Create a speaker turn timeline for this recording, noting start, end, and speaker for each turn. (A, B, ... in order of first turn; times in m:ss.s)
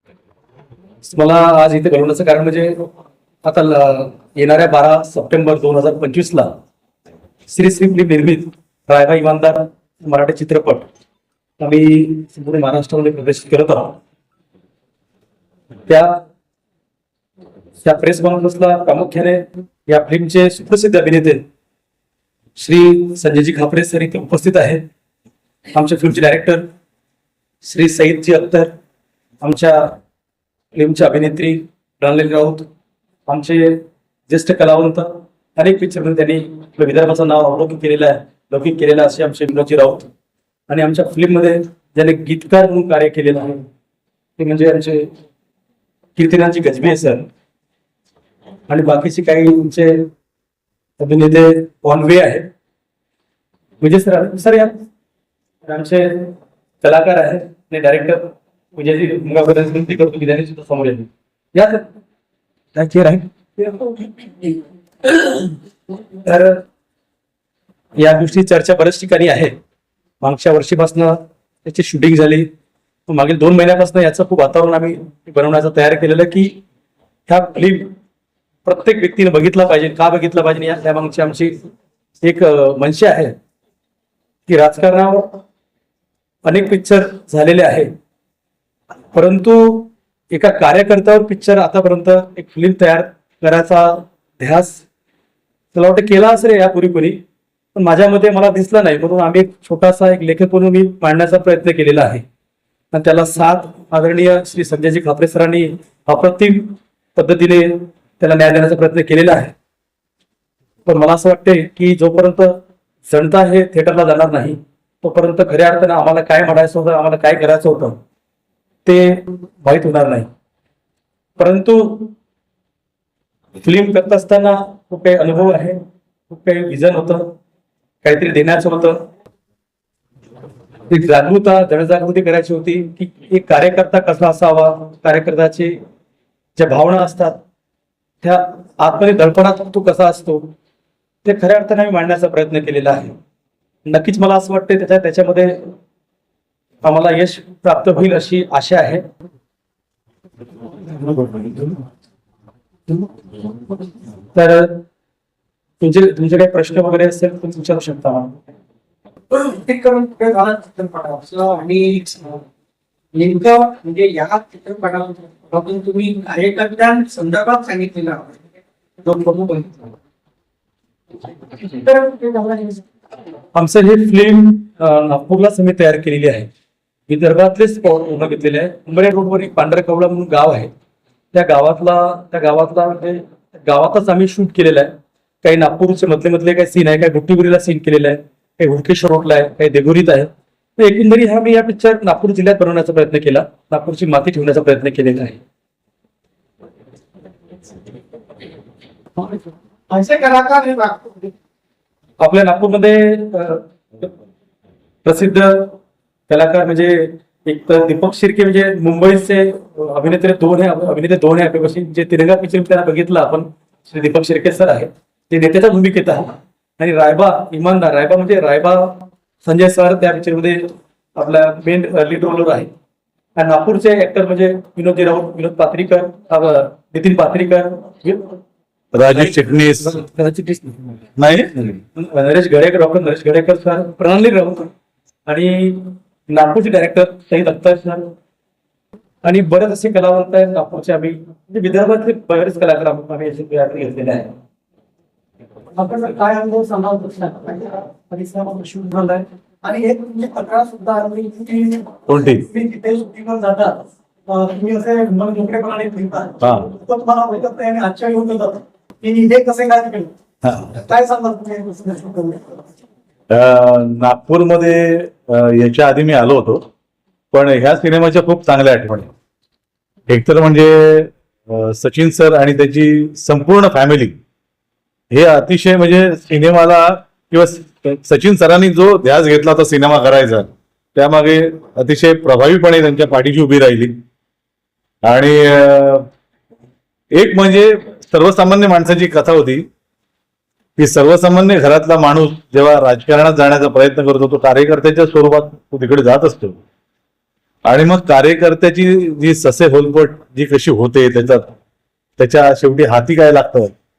0:01.0-0:02.9 A
0:03.4-0:06.6 A
0:07.5-0:10.9 A
0:11.6-0:14.0 A
0:15.9-0:16.2 A
0:17.8-0:21.4 A
0:22.6-0:24.8 A
0:25.7-0:26.7 A
0:27.6-0:28.7 A
0:29.4-0:30.0 A
0:30.7-0:32.7 A
0:33.3-0:40.1 A
0:40.7-0:43.6 A
0:44.4-0:45.1 A
0:46.2-0:47.3 A
0:48.7-0:50.1 A
0:51.0-0:52.5 A
0:53.8-0:54.8 A
0:55.6-1:01.8 A
1:02.7-1:05.6 A
1:06.2-1:06.6 A
1:08.0-1:09.5 A
1:10.2-1:12.5 A
1:13.1-1:16.6 A
1:17.3-1:17.9 A
1:18.6-1:21.6 A
1:22.2-1:23.3 A
1:24.5-1:25.4 A
1:26.4-1:27.9 A
1:29.1-1:34.8 A
1:35.7-1:37.2 A
1:37.8-1:42.2 A
1:42.9-1:49.5 A
1:50.8-1:58.0 A
1:58.8-2:00.3 A
2:01.4-2:02.1 A
2:03.6-2:07.3 A
2:08.0-2:09.0 A
2:10.9-2:15.8 A
2:16.6-2:17.4 A
2:18.2-2:20.5 A
2:21.2-2:23.1 A
2:23.8-2:25.7 A
2:26.8-2:29.0 A
2:30.9-2:31.7 B
2:34.3-2:34.8 A
2:35.8-2:38.4 A
2:39.3-2:42.4 B
2:43.1-2:48.3 B
2:49.0-2:49.9 B
2:51.6-2:52.8 B
2:53.5-2:56.5 A
2:57.1-3:00.7 A
3:01.3-3:15.4 A
3:19.2-3:21.3 B
3:22.2-3:24.1 A
3:25.0-3:25.7 A
3:26.3-3:42.7 A
3:43.4-3:48.4 A
3:48.9-3:50.0 C
3:49.1-3:51.0 A
3:51.2-3:51.7 C
3:51.6-3:54.7 A
3:55.3-3:58.1 A
3:59.2-4:04.3 A
4:05.8-4:20.1 B
4:12.1-4:12.4 C
4:16.4-4:16.7 C
4:20.4-4:20.7 C
4:20.7-4:22.6 B
4:23.3-4:26.6 C
4:27.3-4:29.1 C
4:30.1-4:34.2 C
4:35.1-4:44.0 C
4:45.0-4:46.1 C
4:47.1-4:49.6 C
4:50.8-4:56.6 C
4:57.6-5:01.5 C
5:02.2-5:03.7 C